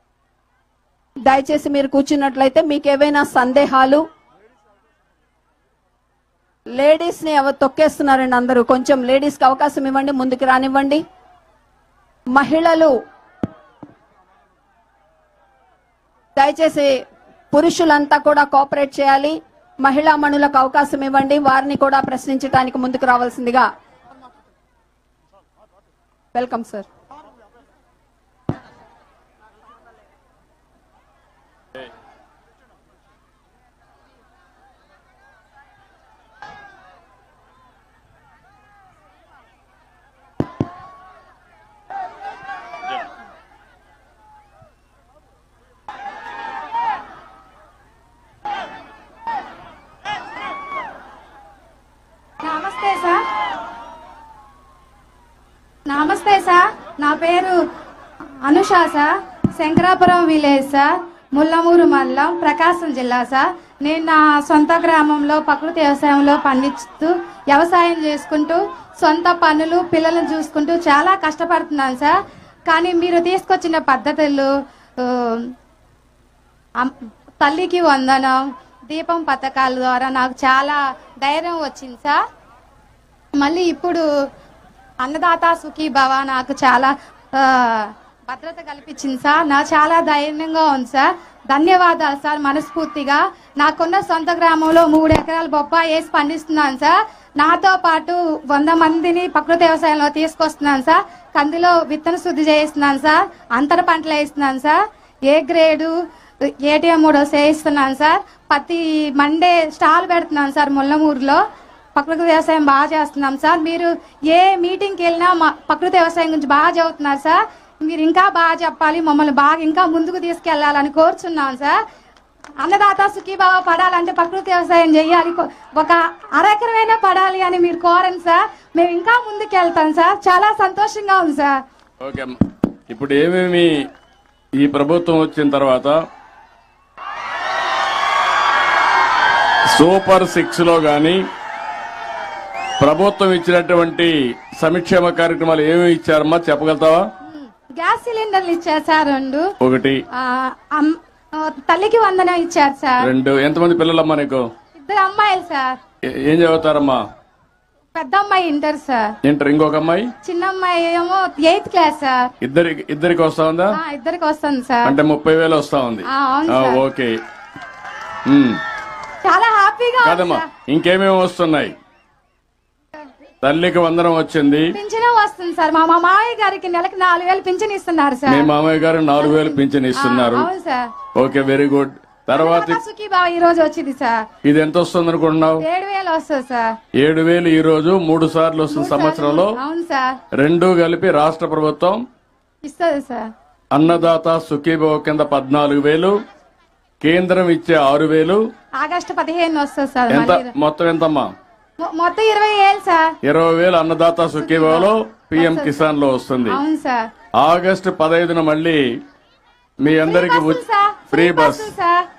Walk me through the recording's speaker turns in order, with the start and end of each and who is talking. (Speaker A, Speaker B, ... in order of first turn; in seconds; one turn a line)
Speaker A: 1.3-4.0
Speaker A: 6.8-11.0
Speaker A: 12.4-12.9
Speaker A: 16.4-16.9
Speaker A: 17.5-23.7
Speaker A: 26.4-26.9
Speaker B: 52.4-53.2
Speaker B: 55.9-57.6
Speaker B: 58.4-72.2
Speaker B: 72.7-75.5
Speaker B: 76.8-82.2
Speaker B: 83.4-84.1
Speaker B: 85.0-105.9
Speaker B: 106.7-111.4
Speaker B: 112.0-121.8
Speaker B: 122.6-131.6
Speaker C: 132.0-132.3
Speaker C: 132.9-133.7
Speaker C: 134.6-136.0
Speaker C: 139.7-141.2
Speaker C: 142.8-147.1
Speaker B: 147.3-149.5
Speaker C: 149.6-150.0
Speaker B: 150.1-153.1
Speaker C: 153.0-154.5
Speaker B: 154.8-155.8
Speaker C: 156.2-157.0
Speaker B: 157.9-159.1
Speaker C: 159.2-160.1
Speaker B: 160.2-162.3
Speaker C: 162.4-163.8
Speaker B: 163.7-165.0
Speaker C: 164.8-167.1
Speaker B: 166.1-166.8
Speaker C: 168.3-168.6
Speaker B: 169.2-170.5
Speaker C: 170.0-171.8
Speaker C: 173.4-174.7
Speaker B: 174.7-178.5
Speaker C: 178.3-180.5
Speaker B: 179.2-180.9
Speaker C: 181.2-182.8
Speaker B: 182.3-184.2
Speaker C: 184.4-185.6
Speaker B: 185.6-186.8
Speaker C: 187.0-189.5
Speaker B: 188.7-190.2
Speaker C: 190.4-192.0
Speaker B: 192.7-193.3
Speaker C: 193.7-196.2
Speaker C: 197.0-198.4
Speaker B: 198.8-200.5
Speaker C: 200.1-201.3
Speaker B: 201.8-203.1
Speaker C: 203.2-206.6
Speaker B: 204.4-205.9
Speaker B: 206.5-207.0
Speaker C: 207.4-208.8
Speaker C: 209.8-211.7
Speaker B: 210.0-212.1